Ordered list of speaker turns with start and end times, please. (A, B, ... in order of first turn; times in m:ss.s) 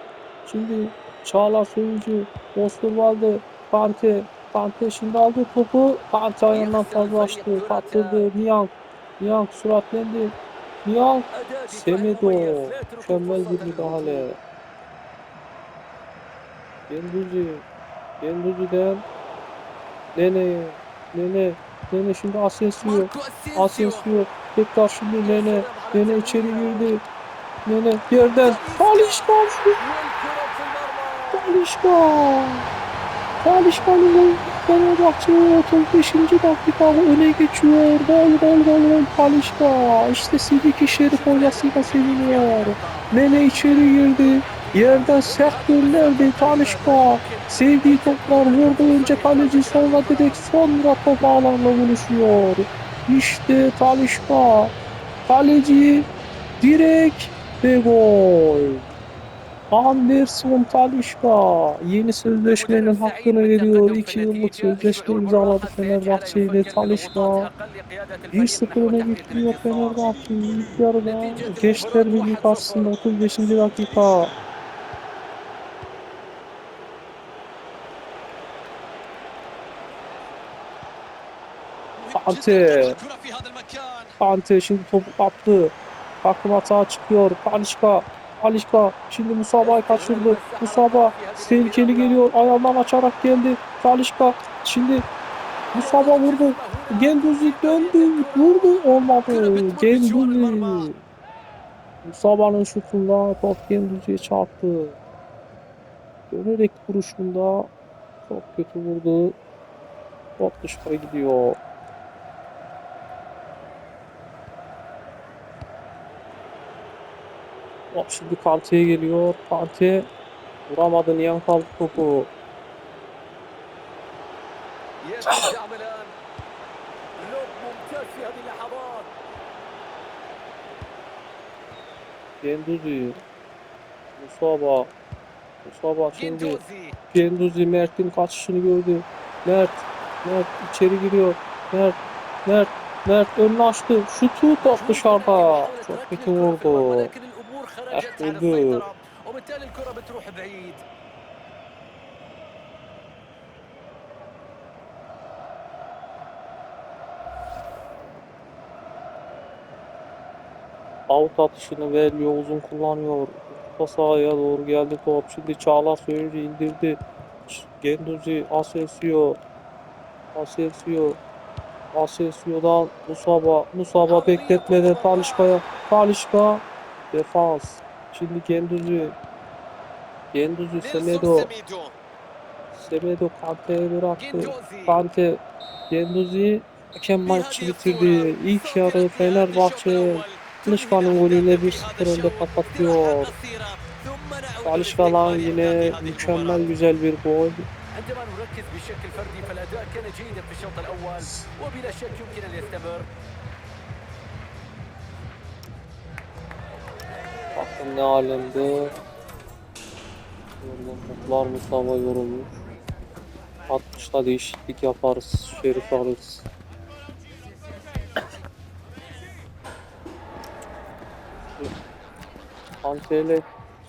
0:00.4-0:14.4 A
0:06.5-0:08.2 B
0:11.3-0:14.3 B
0:16.9-0:17.6 A
0:18.2-0:19.0 A
0:20.1-0:27.0 A
0:22.8-0:24.1 B
0:25.2-0:26.9 B
0:27.6-0:29.8 A
0:28.4-0:31.6 B
0:31.3-0:32.7 A
0:33.4-0:54.7 A
0:33.6-0:34.8 B
0:40.9-0:50.4 B
0:55.3-0:56.1 A
0:56.6-0:58.9 A
0:59.7-1:07.5 A
1:02.4-1:10.1 B
1:08.3-1:14.3 A
1:11.0-1:13.1 B
1:22.0-1:24.2 B
1:22.1-1:23.0 A
1:24.2-1:35.1 A
1:29.6-1:32.2 B
1:35.7-1:40.9 B
1:35.7-1:41.0 A
1:42.0-1:45.0 A
1:46.3-1:47.7 A
1:48.2-1:49.4 A
1:50.4-1:51.6 A
1:57.9-2:00.1 A
2:00.7-2:02.3 A
2:05.0-2:06.1 B
2:07.2-2:09.1 B
2:12.4-2:13.2 A
2:14.2-2:14.9 A
2:15.6-2:16.6 A
2:16.1-2:17.0 B
2:17.1-2:27.1 A
2:24.6-2:30.8 B
2:27.9-2:28.8 A
2:41.1-2:49.4 A
2:50.3-2:51.2 A
2:51.9-2:59.2 A
2:54.1-2:55.6 B
3:00.3-3:01.5 A
3:00.8-3:02.0 B
3:02.7-3:13.3 A
3:04.2-3:05.0 B
3:07.2-3:16.6 B
3:14.6-3:17.6 A
3:17.9-3:23.1 B
3:21.2-3:21.5 A
3:27.6-3:28.9 A
3:30.6-3:32.6 A
3:33.7-3:36.4 A
3:42.8-3:43.4 A